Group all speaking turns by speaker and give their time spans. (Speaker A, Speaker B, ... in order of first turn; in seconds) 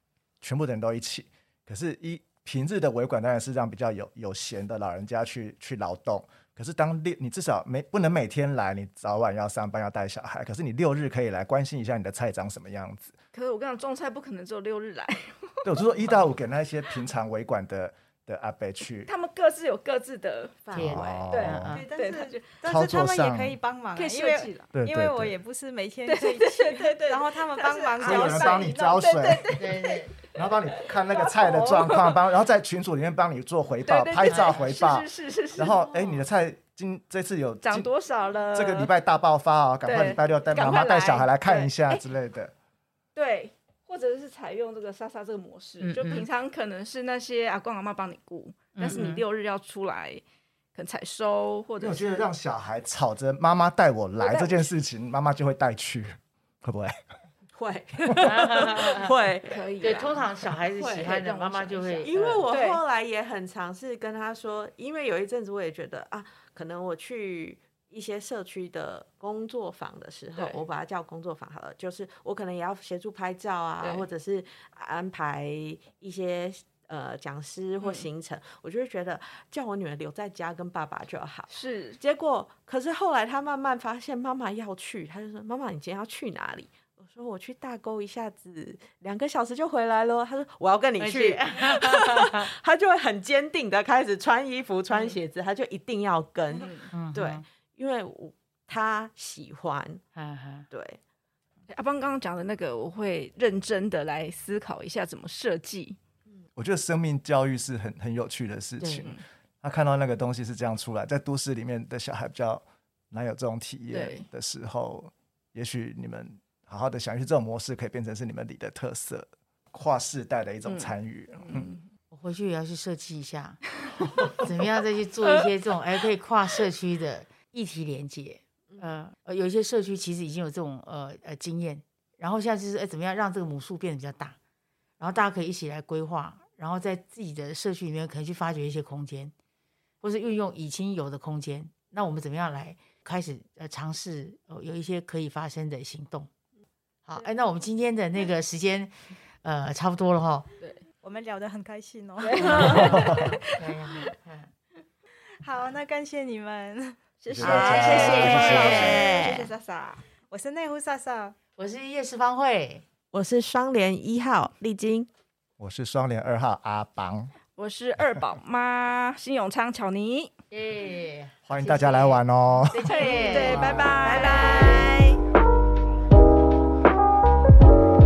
Speaker A: 0.4-13.1, 15.6-19.1, 20.7-21.8, 22.6-23.6, 24.7-25.4, 28.0-29.5, 30.3-37.9, 38.5-42.5, 51.8-57.0, 106.5-121.7, 152.8-153.2, 157.3-159.1, 165.6-167.3, 171.5-172.9
Speaker B: 13.3-16.2, 19.1-22.5, 23.9-24.7, 26.1-30.1, 30.7-32.2, 33.9-35.9, 37.6-38.9, 39.8-42.0, 43.1-50.2, 50.7-52.2, 54.2-54.6, 59.5-60.2, 60.9-62.8, 77.8-78.0, 81.5-82.0, 96.5-96.9, 101.7-106.0, 113.9-114.2, 120.6-121.8, 152.2-154.1, 157.3-160.0, 167.6-170.3, 172.8-175.2
Speaker C: 20.6-20.9, 57.5-60.0, 60.8-61.2, 62.0-100.0, 100.7-101.0, 157.4-159.5, 163.1-165.1
Speaker D: 20.7-21.9, 29.5-30.1, 45.8-46.3, 48.7-49.2, 58.2-59.1, 59.8-62.4, 91.0-92.5, 96.9-97.4, 100.1-100.7, 108.8-109.1, 122.1-123.6, 124.3-134.4, 135.0-139.3, 140.0-146.3, 147.1-150.5, 152.4-154.5, 157.8-159.1, 161.6-162.8, 170.5-174.8
Speaker E: 21.7-28.7, 151.0-153.2, 155.4-157.2, 160.3-161.4, 174.0-174.8